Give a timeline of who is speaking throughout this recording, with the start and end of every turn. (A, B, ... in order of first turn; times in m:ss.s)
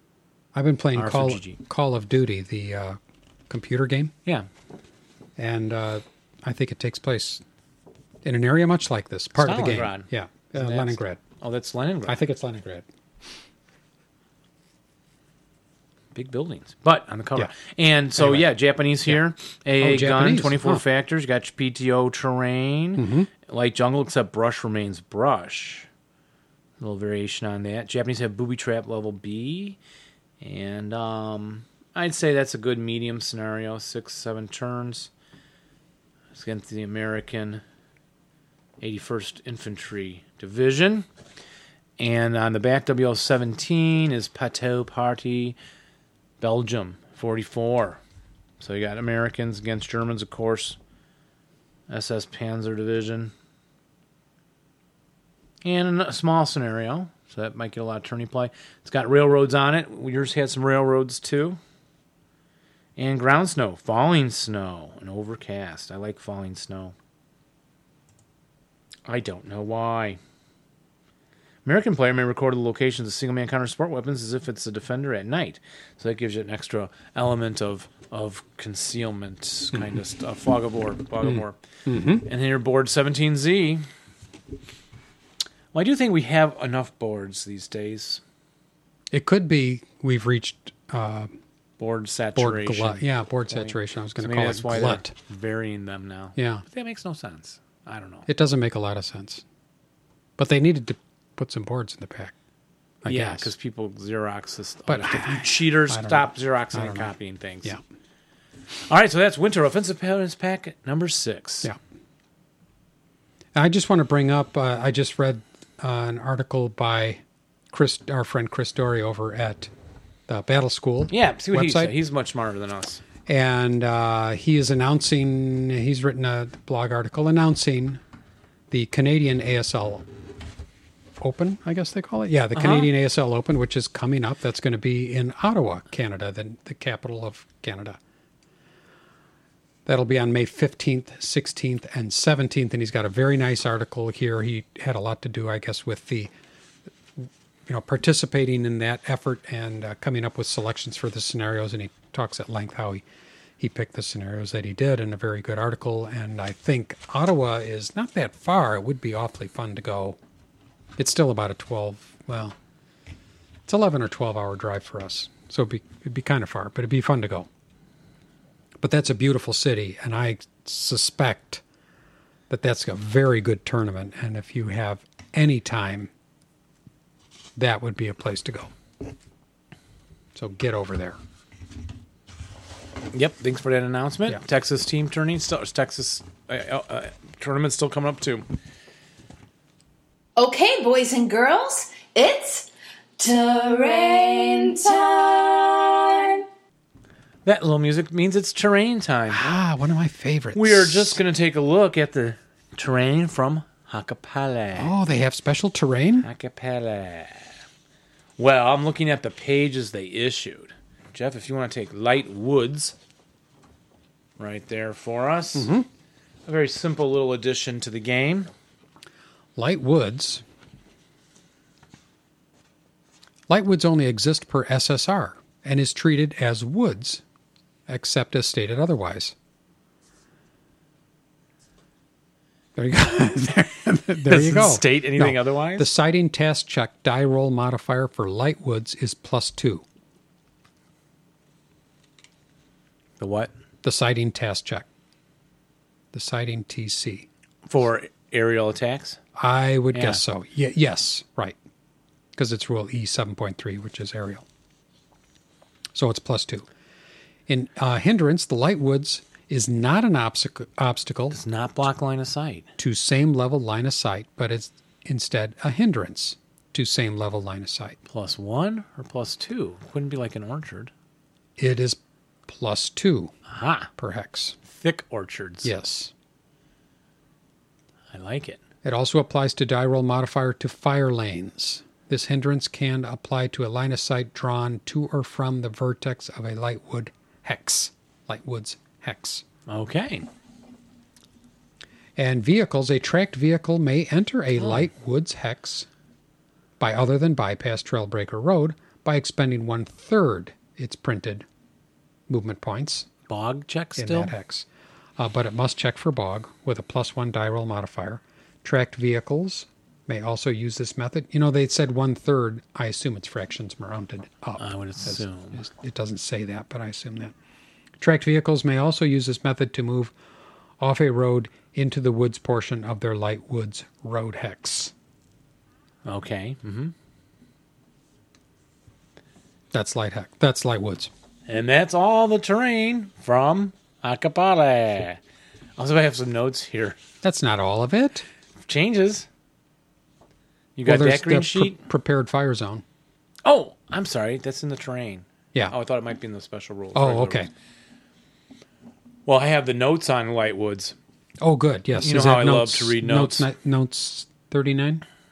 0:00.5-0:04.1 A
0:01.0-0:01.6 B
0:05.4-0:07.4 A
0:08.2-0:11.2 A
0:09.4-0:12.2 B
0:12.1-0:12.9 A
0:16.2-0:25.9 B
0:18.2-0:18.5 A
0:19.8-0:20.8 A
0:23.0-0:23.3 A
0:26.8-0:29.8 B
0:30.4-0:35.1 B
0:36.3-0:37.6 B
0:38.8-0:41.1 B
0:42.0-0:45.6 B
0:46.4-0:48.0 B
0:48.6-0:50.8 B
0:51.9-0:53.3 B
0:55.6-1:01.6 B
1:03.0-1:07.0 B
1:09.1-1:10.2 B
1:11.6-1:21.6 B
1:19.7-1:20.0 A
1:21.2-1:22.3 A
1:22.2-1:23.9 B
1:25.7-1:28.2 B
1:29.1-1:31.3 A
1:31.8-1:38.3 B
1:32.4-1:35.1 A
1:36.4-1:36.6 A
1:38.3-1:39.4 A
1:40.4-1:42.3 A
1:43.0-1:43.5 A
1:43.1-1:47.8 B
1:44.9-1:47.1 A
1:48.9-1:51.7 B
1:53.6-1:59.7 A
2:00.3-2:02.0 A
2:01.1-2:03.0 B
2:03.3-2:08.0 A
2:08.7-2:10.1 A
2:11.2-2:18.0 A
2:12.6-2:12.9 B
2:19.9-2:26.3 A
2:27.2-2:33.0 A
2:33.6-2:40.2 A
2:41.0-2:42.6 A
2:43.7-2:47.5 A
2:48.8-2:51.6 A
2:52.5-2:56.1 A
2:57.6-2:58.7 A
3:00.4-3:01.2 A
3:03.1-3:08.4 B
3:10.4-3:16.4 C
3:17.4-3:19.5 B
3:19.3-3:21.2 A
3:20.6-3:24.9 B
3:24.8-3:26.3 A
3:26.2-3:27.6 B
3:28.4-3:33.0 B
3:34.4-3:35.7 B
3:35.6-3:35.9 A
3:36.5-3:38.5 B
3:39.6-3:40.4 A
3:43.5-3:47.2 A
3:47.9-3:49.4 A
3:52.8-3:59.8 A
3:54.3-3:55.9 B
4:03.2-4:03.5 B
4:03.8-4:04.9 A
4:06.1-4:07.3 A
4:07.7-4:09.2 B
4:09.4-4:11.6 A
4:09.9-4:10.2 B
4:12.4-4:14.4 A
4:15.9-4:16.7 A
4:17.5-4:21.4 A
4:21.3-4:22.7 B
4:22.8-4:28.0 A
4:28.1-4:30.9 B
4:31.6-4:33.3 A
4:33.5-4:33.9 B
4:34.0-4:34.6 A
4:34.6-4:35.7 B
4:35.6-4:36.1 A
4:38.1-4:38.6 B
4:38.8-4:49.4 A
4:49.7-4:50.3 B
4:52.2-4:55.9 A
4:56.8-5:01.5 A
5:02.3-5:03.1 A
5:03.3-5:04.3 B
5:04.0-5:17.3 A
5:14.6-5:15.6 B
5:18.0-5:20.1 A
5:20.8-5:24.9 A
5:26.0-5:26.9 B
5:29.7-5:31.1 A
5:31.5-5:35.2 B
5:35.8-5:37.0 B
5:37.2-5:38.3 A
5:38.7-5:39.3 B
5:40.8-5:41.8 B
5:40.8-5:42.8 A
5:43.4-5:47.5 B
5:47.0-5:47.5 A
5:49.3-5:51.0 B
5:51.4-5:55.0 A
5:52.0-5:53.5 B